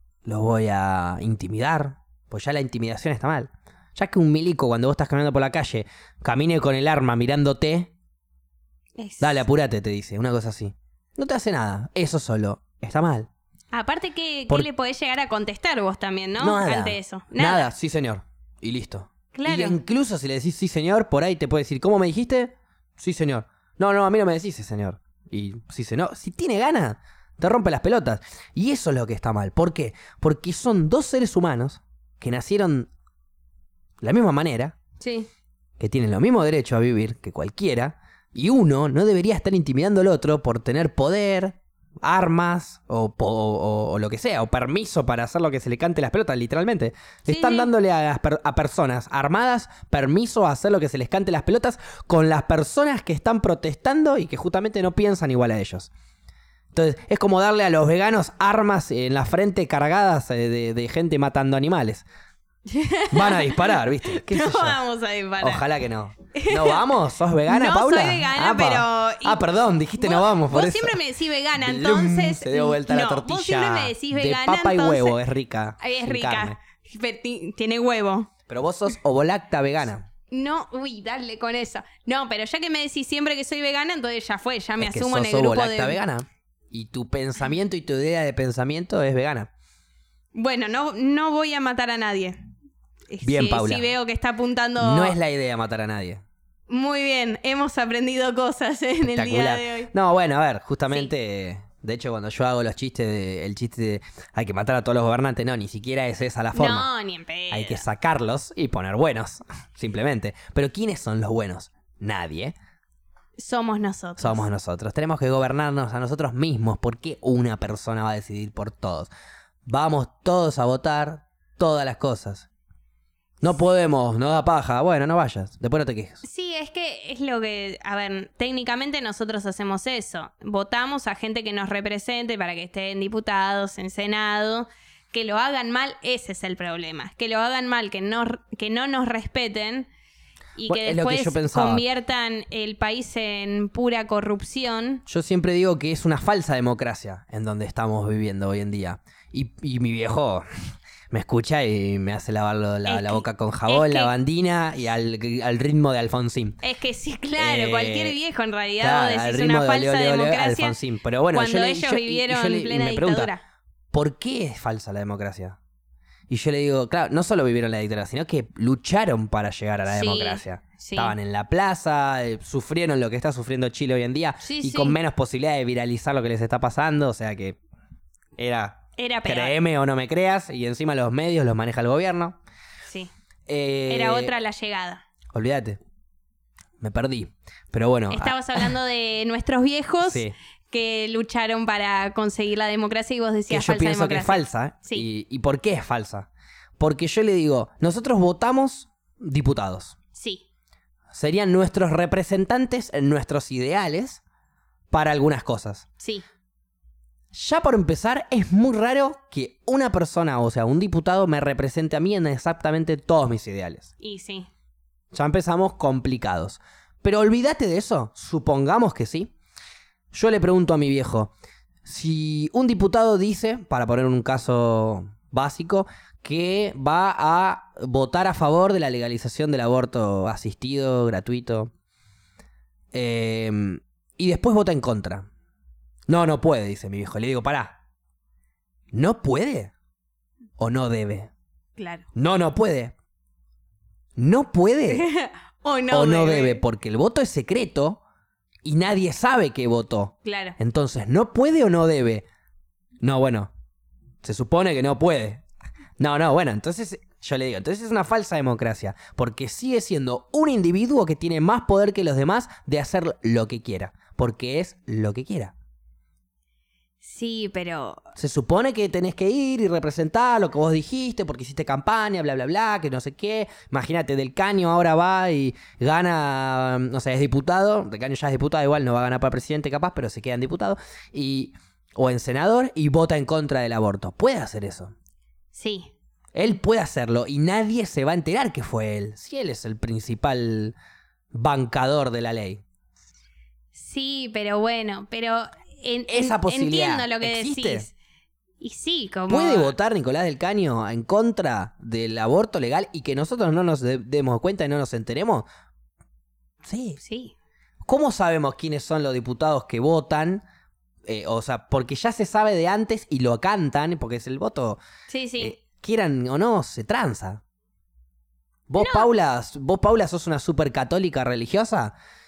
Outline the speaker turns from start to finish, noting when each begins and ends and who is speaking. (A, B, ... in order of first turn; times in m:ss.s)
0:00.2-0:07.9 A
0:09.0-0:09.4 B
0:09.2-0:13.3 A
0:13.7-0:17.7 B
0:16.4-0:32.9 A
0:19.3-0:19.8 B
0:34.0-0:34.8 A
0:35.0-0:35.3 B
0:35.8-0:55.9 A
0:47.2-0:47.7 B
0:56.7-1:02.0 A
1:02.6-1:05.6 B
1:03.1-1:04.8 A
1:05.4-1:11.0 A
1:06.4-1:06.9 B
1:07.5-1:09.4 B
1:10.0-1:15.2 B
1:11.5-1:16.6 A
1:15.8-1:18.3 B
1:18.5-1:20.1 A
1:20.3-1:26.0 B
1:24.8-1:29.5 A
1:30.3-1:32.4 B
1:33.1-1:35.2 B
1:33.2-1:33.9 A
1:34.8-1:36.2 A
1:36.7-1:39.9 B
1:39.0-1:46.9 A
1:46.5-1:47.8 B
1:47.5-1:52.5 A
1:53.4-1:54.4 B
1:54.2-1:59.1 A
1:59.6-2:02.5 A
2:03.4-2:06.2 A
2:06.2-2:19.9 B
2:20.6-2:25.0 B
2:20.6-2:21.8 A
2:25.0-2:30.4 A
2:31.1-2:36.6 A
2:32.9-2:34.1 B
2:36.6-2:40.8 B
2:37.4-2:38.2 A
2:38.8-2:43.3 A
2:41.3-2:43.4 B
2:43.9-2:45.6 A
2:46.3-2:57.6 A
2:49.9-2:51.1 B
2:54.4-2:55.0 B
2:58.4-3:02.4 A
2:59.0-2:59.5 B
3:03.5-3:04.3 A
3:03.9-3:05.0 B
3:05.3-3:05.8 A
3:06.8-3:08.7 A
3:08.1-3:15.0 B
3:10.0-3:10.4 A
3:13.5-3:16.3 A
3:16.8-3:20.0 A
3:20.1-3:20.4 B
3:21.1-3:24.2 A
3:24.9-3:25.9 A
3:26.0-3:26.2 B
3:27.3-3:33.9 A
3:34.0-3:34.5 B
3:35.1-3:39.3 A
3:40.1-3:41.3 A
3:41.8-3:51.7 A
3:52.9-3:55.3 A
3:56.1-3:57.8 A
3:58.9-3:59.7 A
4:00.6-4:01.3 A
4:01.8-4:02.0 B
4:02.1-4:02.9 A
4:04.2-4:05.1 A
4:04.9-4:06.6 B
4:05.9-4:08.0 A
4:08.6-4:12.2 A
4:10.2-4:10.6 B
4:13.0-4:13.5 A
4:14.2-4:15.4 A
4:16.0-4:25.5 A
4:27.0-4:28.0 B
4:28.2-4:44.9 A
4:45.5-4:45.9 B
4:46.3-4:50.8 A
4:51.3-4:52.6 A
4:53.7-4:57.9 B
4:56.1-4:57.9 A
4:58.6-4:59.7 B
4:59.3-5:05.4 A
5:06.6-5:07.0 A
5:07.0-5:07.4 B
5:07.8-5:10.4 A
5:11.1-5:14.8 A
5:15.1-5:15.6 B
5:15.4-5:17.4 A
5:18.7-5:22.0 A
5:18.8-5:19.1 B